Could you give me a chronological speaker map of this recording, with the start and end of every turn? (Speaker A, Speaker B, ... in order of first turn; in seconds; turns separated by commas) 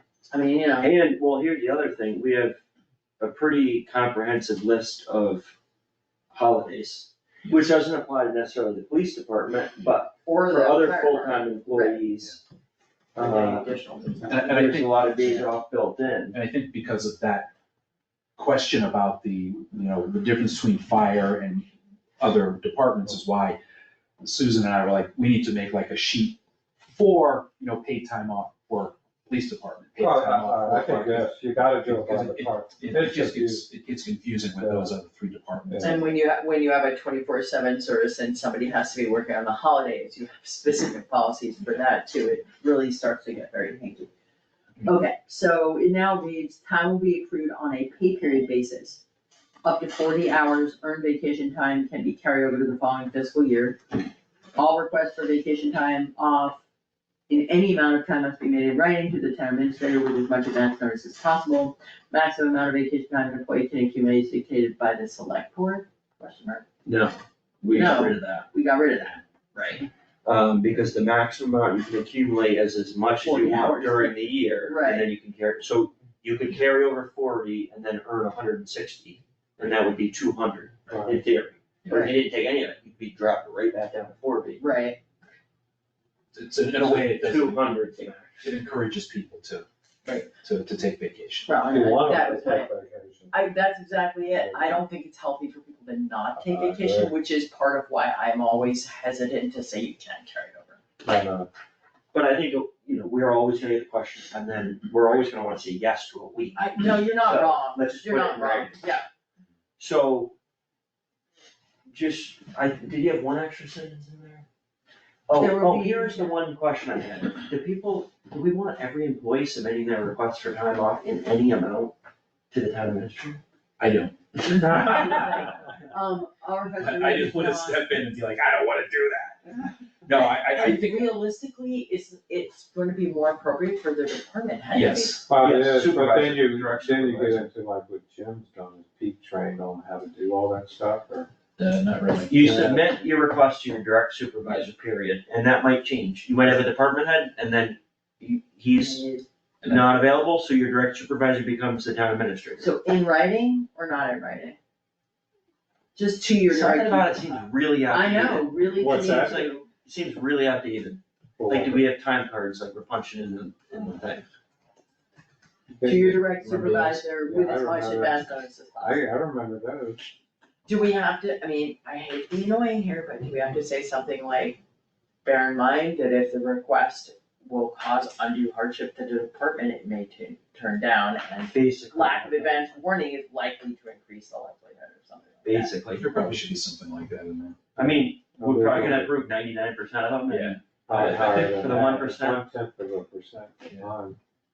Speaker A: 0.3-0.9, Speaker B: 0.8-2.6, Speaker B: 3.2-5.5, Speaker B: 6.3-12.4, Speaker A: 10.2-12.0, Speaker B: 13.1-13.7, Speaker A: 13.1-14.4, Speaker C: 14.3-15.4, Speaker B: 14.3-16.4, Speaker C: 16.3-17.5, Speaker C: 18.4-21.7, Speaker C: 22.2-23.6, Speaker C: 24.2-31.3, Speaker D: 30.0-33.6, Speaker C: 31.8-36.1, Speaker D: 34.6-34.9, Speaker D: 35.7-36.0, Speaker A: 35.8-44.1, Speaker A: 44.8-49.0, Speaker A: 49.6-54.0, Speaker A: 54.5-56.6, Speaker A: 57.3-66.6, Speaker B: 66.8-68.5, Speaker A: 67.7-69.8, Speaker B: 70.2-84.6, Speaker A: 73.2-75.1, Speaker D: 80.9-81.2, Speaker A: 81.9-82.2, Speaker A: 84.6-85.0, Speaker C: 86.3-87.6, Speaker B: 86.7-88.4, Speaker C: 88.4-89.7, Speaker A: 90.0-90.3, Speaker C: 90.4-91.6, Speaker A: 91.5-92.7, Speaker D: 91.7-93.4, Speaker A: 93.3-100.8, Speaker D: 94.3-94.8, Speaker D: 96.3-97.1, Speaker D: 101.0-101.5, Speaker B: 102.1-108.9, Speaker A: 106.5-109.0, Speaker B: 109.8-110.3, Speaker B: 111.9-114.5, Speaker B: 115.3-121.9, Speaker A: 115.3-116.3, Speaker B: 122.5-123.4, Speaker C: 123.8-125.5, Speaker A: 124.9-127.9, Speaker C: 126.8-131.1, Speaker A: 130.5-135.3, Speaker C: 134.7-135.2, Speaker D: 135.3-141.3, Speaker B: 135.3-137.5, Speaker C: 141.6-142.4, Speaker B: 142.3-149.0, Speaker D: 142.4-142.8, Speaker A: 148.8-149.2, Speaker B: 149.6-152.7, Speaker A: 152.6-154.6, Speaker A: 155.9-157.2, Speaker B: 156.5-164.3, Speaker A: 157.9-159.6, Speaker D: 158.8-159.4, Speaker D: 161.4-161.8, Speaker D: 165.7-170.0, Speaker A: 165.8-169.0, Speaker A: 170.7-174.6, Speaker A: 175.2-185.8, Speaker B: 181.5-182.7, Speaker B: 185.4-186.1, Speaker C: 185.9-187.6, Speaker B: 187.7-192.4, Speaker D: 187.8-189.2, Speaker C: 190.3-190.6, Speaker D: 190.9-194.2